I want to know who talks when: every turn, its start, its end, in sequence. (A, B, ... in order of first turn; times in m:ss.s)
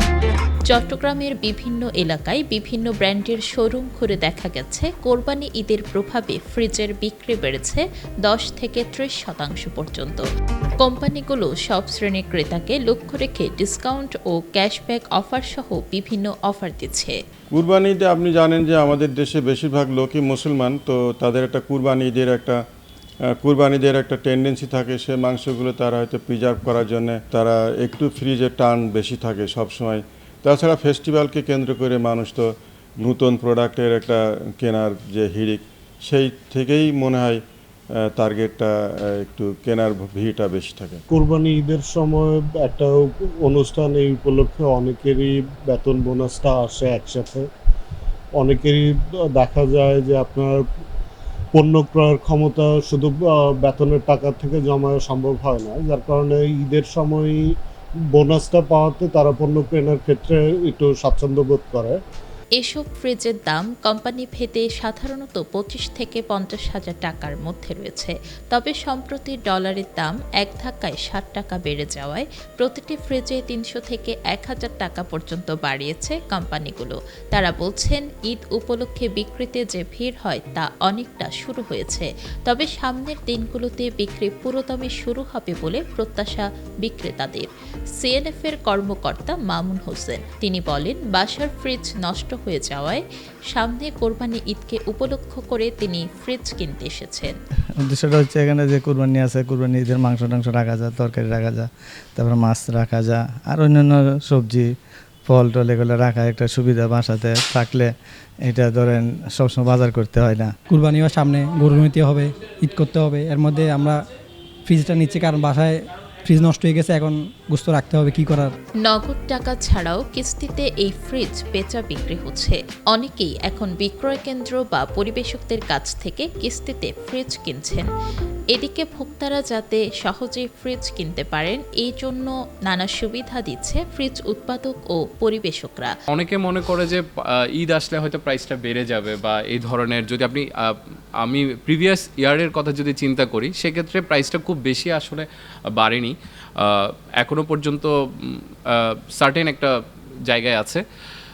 0:00.7-0:10.2 A
0:10.8-0:17.2 A
0:17.5-0:22.6 B
0:23.3-0:37.4 B
0:38.0-0:41.0 B
0:41.1-0:47.4 C
0:48.4-0:50.6 C
0:51.5-0:57.4 C
0:58.1-1:02.0 C
1:02.6-1:37.3 A
1:37.9-1:44.7 D
1:45.3-1:47.9 D
1:48.4-1:50.5 D
1:50.7-1:54.0 E
1:54.7-1:58.5 E
1:58.8-2:07.9 A
2:08.5-2:15.9 A
2:16.1-2:29.8 F
2:30.3-2:30.8 F